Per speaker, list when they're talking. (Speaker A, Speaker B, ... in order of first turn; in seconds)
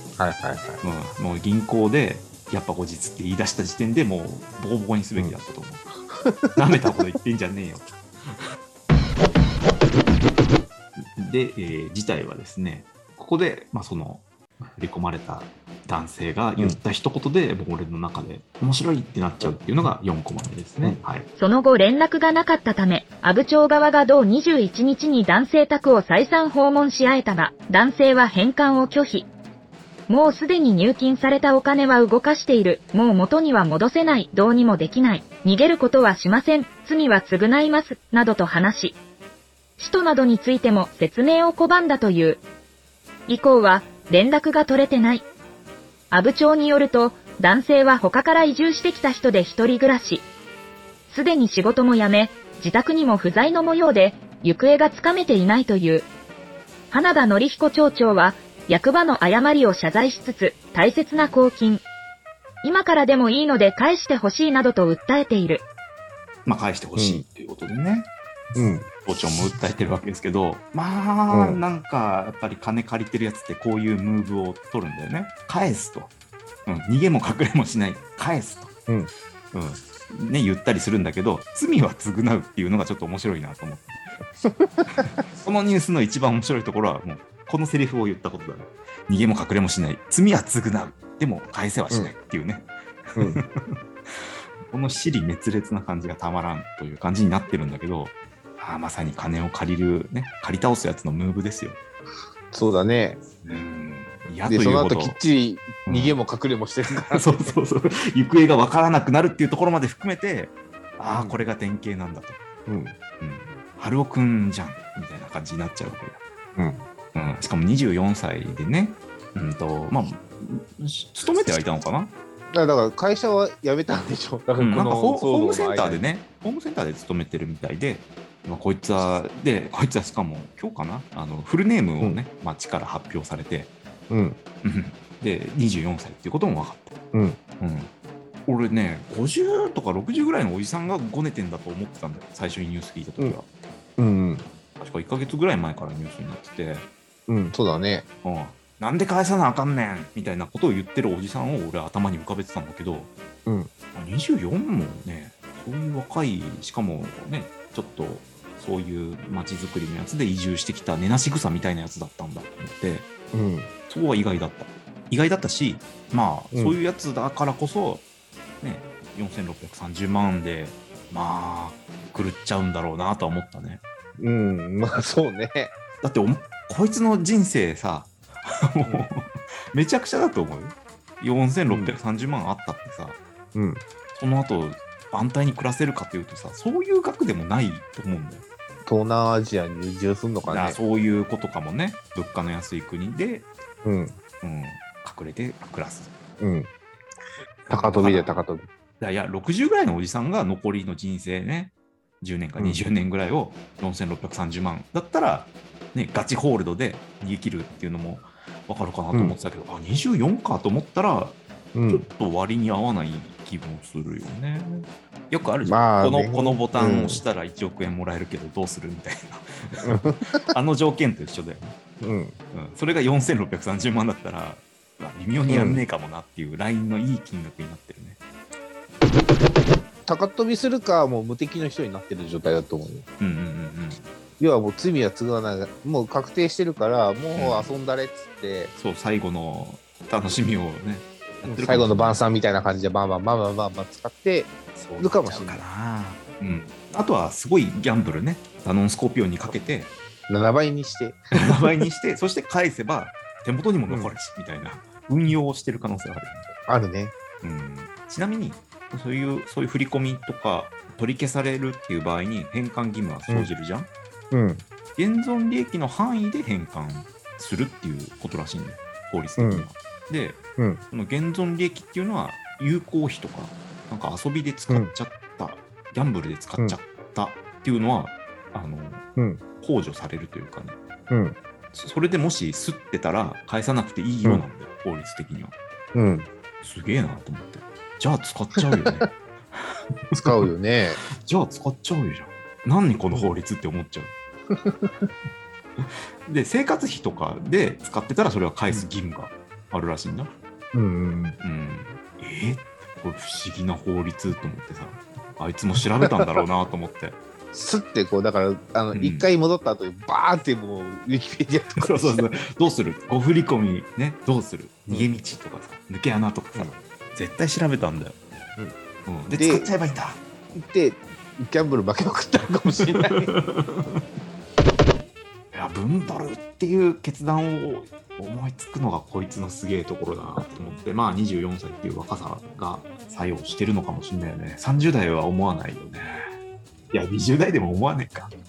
Speaker A: 0.2-0.8, 6.1-6.6, 67.0-67.2, 68.5-68.9, 71.3-71.6, 84.4-85.0, 102.5-103.2, 104.5-107.5, 111.1-111.4, 112.7-113.0, 116.6-116.8, 122.5-126.0, 134.1-134.4, 137.1-137.4, 144.0-144.5, 147.3-148.1, 153.5-153.7, 163.3-163.7, 174.2-175.8, 181.7-181.9, 183.6-183.8, 188.9-190.8, 193.8-194.2, 196.4-196.7, 197.7-198.7, 202.6-202.8, 211.7-212.1, 215.7-217.2, 219.8-220.5, 222.0-222.4, 225.5-225.8, 230.1-233.1, 234.4-238.7, 241.4-245.6, 250.3-251.8, 253.9-254.1, 256.7-257.1, 264.3-264.6, 269.4-269.7, 279.2-279.4, 281.1-281.4, 285.9-286.3, 290.2-291.0, 294.5-295.1, 300.7-301.4, 307.5-312.4, 319.4-319.7, 320.6-323.3
Speaker B: 0.8-5.8, 6.6-8.4, 11.2-21.3, 66.5-68.1, 69.0-76.1, 76.7-78.7, 79.5-83.9, 84.9-93.8, 94.7-101.8, 103.4-105.2, 105.9-106.2, 107.0-112.4, 113.2-116.2, 117.2-122.1, 124.5-133.7, 134.6-136.9, 137.6-137.9, 138.5-143.5, 144.8-146.9, 148.2-153.1, 153.9-163.1, 163.9-168.1, 168.6-173.8, 176.0-183.2, 184.1-188.4, 190.5-193.5, 194.4-196.1, 197.7-198.4, 199.0-221.7, 222.5-228.2, 233.2-234.1, 237.3-237.7, 238.8-242.2, 244.8-249.9, 251.4-256.5, 257.4-263.9, 265.0-279.1, 279.6-280.8, 281.7-285.6, 286.6-289.6, 290.1-290.5, 291.2-294.1, 295.8-300.3, 301.4-307.2, 308.9-309.3, 311.8-318.2, 319.1-320.2, 323.4-323.7, 325.5-336.3, 336.9-338.3
Speaker C: 21.4-29.3, 30.1-39.0, 39.8-42.4, 43.3-45.2, 46.1-50.3, 51.1-56.1, 56.9-61.8, 62.6-65.7